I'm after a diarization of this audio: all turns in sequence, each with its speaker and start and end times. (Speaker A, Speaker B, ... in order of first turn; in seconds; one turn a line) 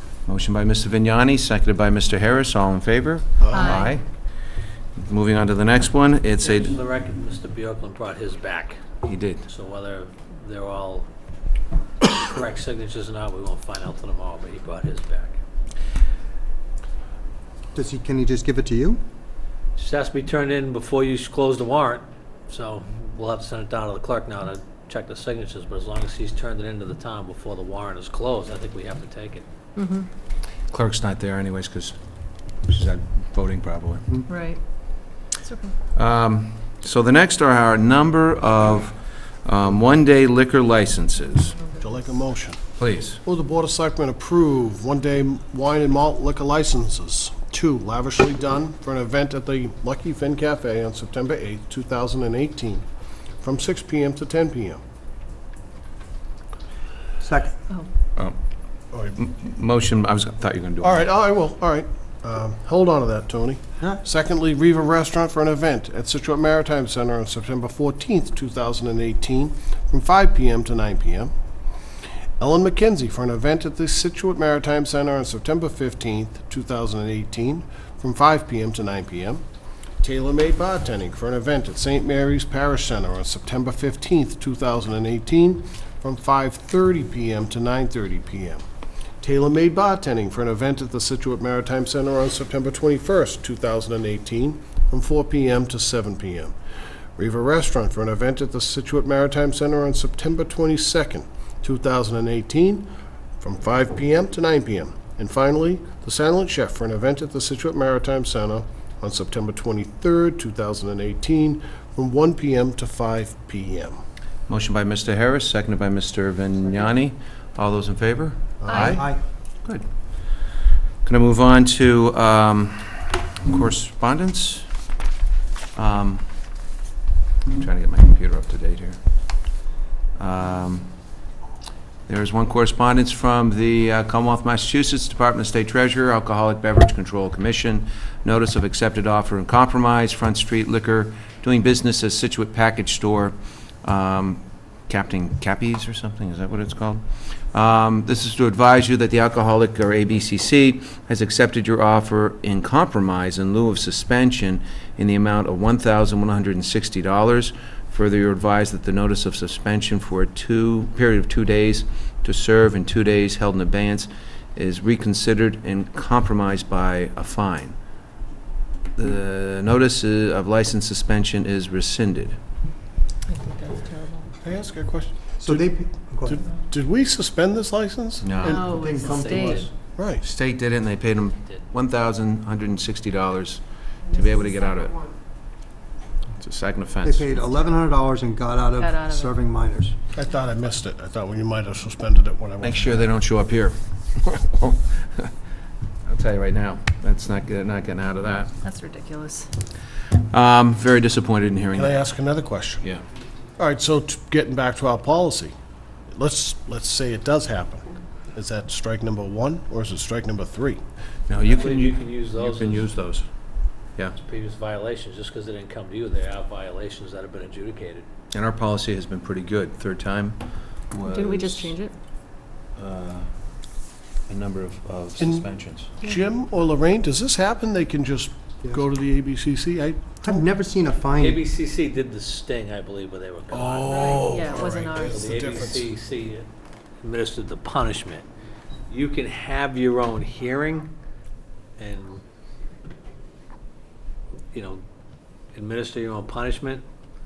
Speaker A: 0.3-4.0
Speaker B: 3.4-3.8
Speaker C: 3.5-3.9
Speaker A: 5.0-6.8
Speaker D: 6.4-8.8
Speaker A: 9.0-9.4
Speaker D: 9.5-11.1
Speaker D: 12.0-15.4
Speaker E: 17.7-19.0
Speaker D: 19.8-29.4
Speaker C: 29.8-30.1
Speaker A: 30.7-32.0
Speaker A: 32.6-34.2
Speaker C: 34.3-34.6
Speaker C: 35.2-35.7
Speaker A: 36.0-41.5
Speaker C: 41.5-42.1
Speaker B: 41.8-42.6
Speaker A: 42.8-43.2
Speaker B: 43.2-52.8
Speaker B: 53.4-54.8
Speaker E: 57.2-57.5
Speaker A: 59.1-61.1
Speaker B: 60.8-71.3
Speaker B: 72.4-79.4
Speaker B: 80.0-88.6
Speaker B: 89.2-96.5
Speaker B: 97.2-102.9
Speaker B: 103.4-114.0
Speaker A: 114.5-119.1
Speaker B: 118.6-119.0
Speaker C: 118.7-119.0
Speaker E: 118.8-119.2
Speaker A: 121.0-124.7
Speaker A: 125.8-126.2
Speaker A: 127.5-129.0
Speaker A: 130.2-130.9
Speaker A: 132.1-167.8
Speaker A: 169.0-172.4
Speaker C: 173.3-174.3
Speaker B: 174.4-175.7
Speaker E: 175.4-176.4
Speaker B: 176.2-178.8
Speaker A: 178.2-178.7
Speaker E: 178.4-179.7
Speaker C: 178.4-179.7
Speaker D: 179.0-179.7
Speaker B: 179.9-180.2
Speaker A: 180.2-185.1
Speaker A: 186.4-187.4
Speaker E: 187.0-190.0
Speaker C: 188.8-189.3
Speaker B: 190.2-193.2
Speaker A: 192.6-195.3
Speaker A: 196.1-198.5
Speaker C: 198.6-199.5
Speaker A: 200.3-202.1
Speaker B: 201.7-202.9
Speaker B: 203.6-205.5
Speaker B: 206.1-210.8
Speaker A: 211.3-213.2
Speaker D: 211.4-213.0
Speaker D: 214.2-218.1
Speaker A: 218.3-221.8
Speaker C: 221.1-221.9
Speaker A: 222.8-223.3
Speaker A: 224.3-225.9
Speaker B: 225.2-225.5
Speaker B: 226.0-230.4
Speaker E: 230.2-231.4
Speaker D: 231.2-234.3
Speaker B: 233.5-235.9
Speaker C: 233.9-235.2
Speaker D: 235.0-236.5
Speaker D: 237.0-238.3
Speaker D: 238.9-240.9
Speaker D: 241.8-242.2
Speaker D: 244.5-244.8
Speaker D: 245.5-246.8